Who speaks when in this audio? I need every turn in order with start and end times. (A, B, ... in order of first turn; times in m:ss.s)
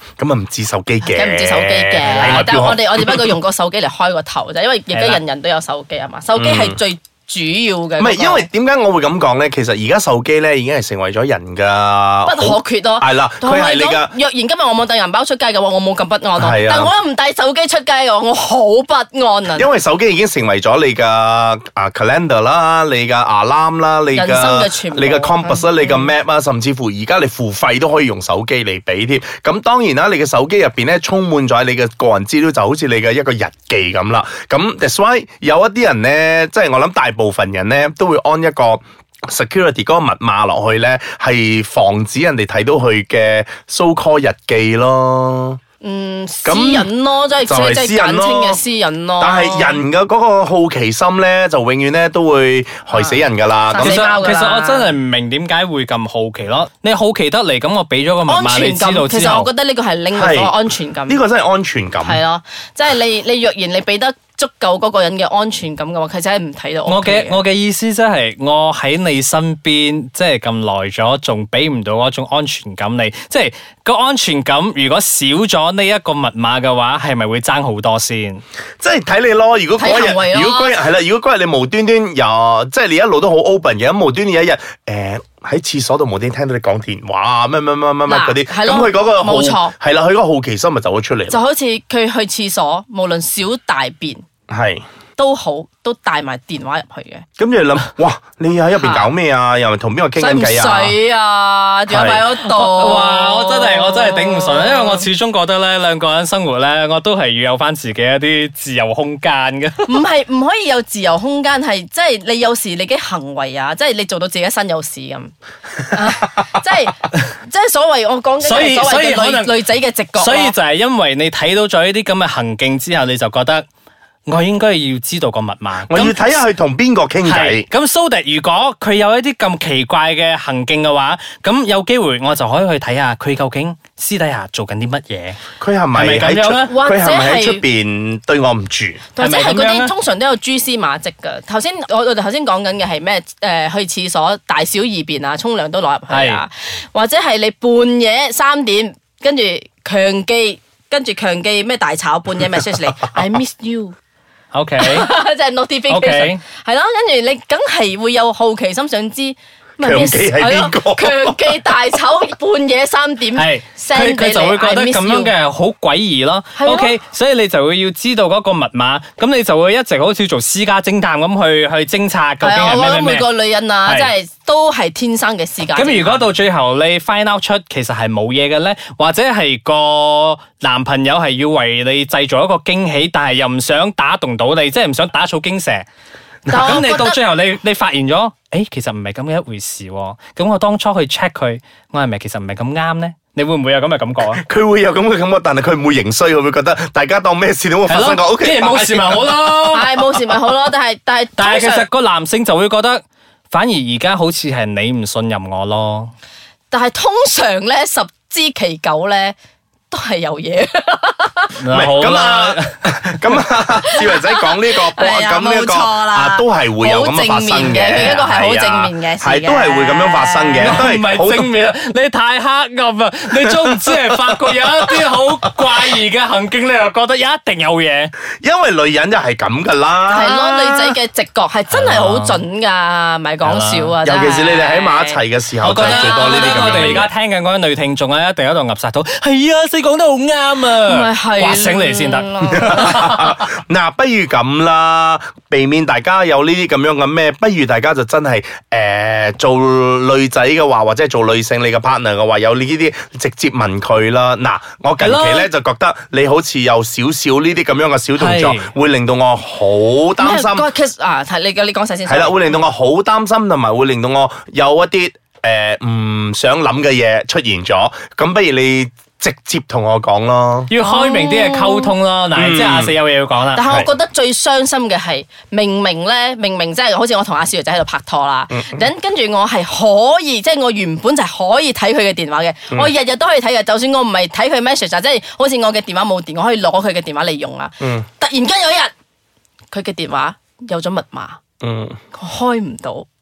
0:00.2-0:03.4 A
0:01.0-0:08.5 B
0:02.1-0:02.5 C
0:04.9-0:05.2 C
0:06.4-0:06.8 A
0:08.0-0:14.1 A
0:12.2-0:19.7 B
0:16.4-0:16.9 A
0:19.5-0:45.6 A
0:24.1-0:26.1 B
0:45.8-0:49.8 B
0:46.4-0:46.9 A
0:47.4-0:48.6 A
0:49.2-0:54.0 A
0:52.9-0:54.9 B
0:53.8-0:59.5 C
0:58.2-1:01.2 B
1:00.1-1:02.2 A
1:02.0-1:07.4 B
1:06.8-1:18.4 C
1:18.8-1:31.4 A
1:19.8-1:20.8 B
1:28.1-1:29.7 B
1:31.3-1:34.2 B
1:34.5-1:34.8 A
1:35.2-1:37.2 B
1:37.4-1:41.0 A
1:38.7-1:39.1 B
1:40.2-1:45.1 B
1:41.9-1:42.2 A
1:42.4-1:49.9 C
1:49.8-1:55.3 B
1:55.9-2:00.5 B
1:58.4-1:59.6 C
2:00.2-2:03.6 C
2:04.3-2:06.4 C
2:05.9-2:07.6 A
2:07.2-2:15.4 C
2:15.6-2:19.0 A
2:15.9-2:16.7 C
2:16.7-2:17.6 B
2:19.2-2:33.9 B
2:19.2-2:19.9 C
2:26.1-2:26.4 C
2:34.5-2:35.1 C
2:34.8-2:45.3 B
2:35.9-2:36.4 C
2:39.8-2:41.6 A
2:43.4-2:53.3 C
2:46.6-2:46.9 B
2:52.4-2:56.3 B
2:53.8-2:54.1 C
2:55.7-3:05.8 C
3:06.5-3:06.8 A
3:06.5-3:07.2 B
3:06.5-3:14.4 C
3:14.3-3:19.4 A
3:17.9-3:20.0 C
3:19.7-3:21.9 B
3:21.4-3:26.1 C
3:26.7-3:29.3 B
3:29.9-3:31.6 B
3:31.5-3:32.8 C
3:31.7-3:41.5 A
3:33.8-3:40.8 B
3:40.6-3:48.1 C
3:43.5-3:45.0 A
3:48.4-3:51.0 A
3:50.1-3:57.1 B
3:51.7-3:52.4 C
3:53.4-3:53.9 C
3:54.0-3:57.1 A
3:55.6-4:03.4 C
4:00.8-4:03.0 B
4:02.6-4:20.7 A
4:15.0-4:15.5 C
4:18.2-4:18.7 C
4:20.2-4:22.6 B
4:22.0-4:30.7 A
4:30.7-4:33.6 C
4:30.8-4:31.9 B
4:32.3-4:32.9 A
4:33.5-4:48.9 B
4:38.5-4:38.8 A
4:47.8-4:48.0 A
4:49.7-4:51.4 B
4:51.6-4:52.0 A
4:52.1-4:53.1 B